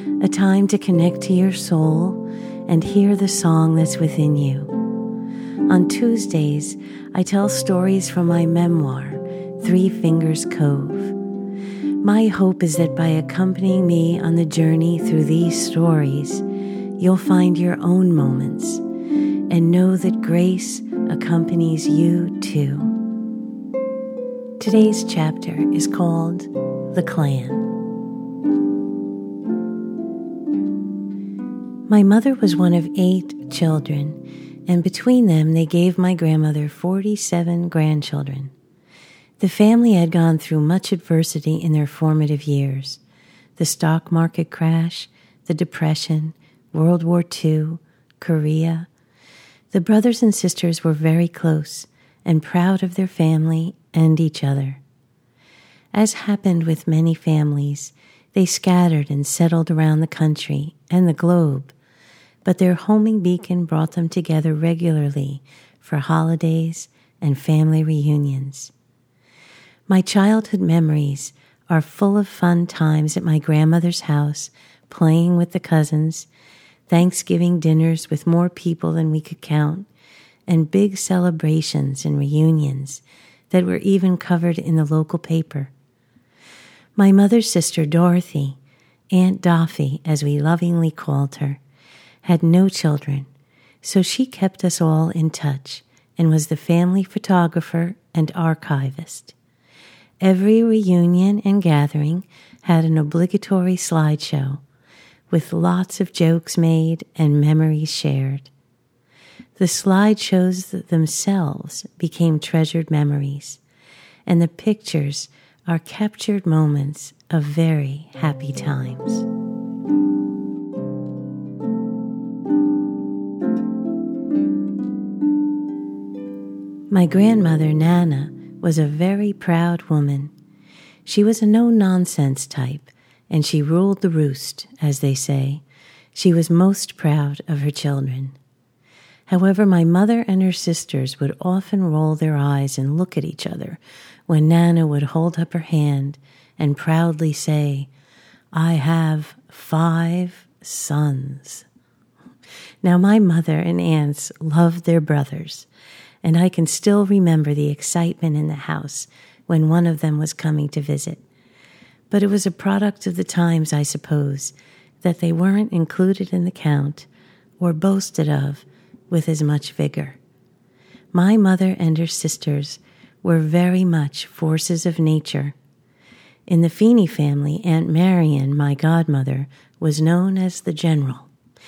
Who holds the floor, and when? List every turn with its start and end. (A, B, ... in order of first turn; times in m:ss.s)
0:00.2-0:04.7 A
0:05.7-0:11.2 A
0:12.0-0:16.4 A
0:17.0-0:18.8 A
0:19.5-0:23.0 A
0:24.6-0:27.7 A
0:31.9-0:38.5 A
0:39.4-0:43.0 A
0:43.6-0:48.9 A
0:49.7-0:54.8 A
0:55.9-1:01.8 A
1:02.4-1:08.7 A
1:09.9-1:16.3 A
1:16.9-1:19.9 A
1:20.5-1:25.7 A
1:27.0-1:28.6 A
1:29.1-1:31.6 A
1:32.2-1:33.3 A
1:33.8-1:39.4 A
1:40.2-1:44.6 A
1:45.3-1:48.5 A
1:49.6-1:53.6 A
1:54.2-1:59.3 A
2:06.9-2:10.3 A
2:11.0-2:15.6 A
2:16.1-2:18.4 A
2:19.3-2:27.9 A
2:28.5-2:31.7 A
2:32.8-2:35.7 A
2:36.2-2:41.2 A
2:42.1-2:47.1 A
2:47.6-2:50.2 A
2:51.1-2:55.6 A
2:56.5-3:01.3 A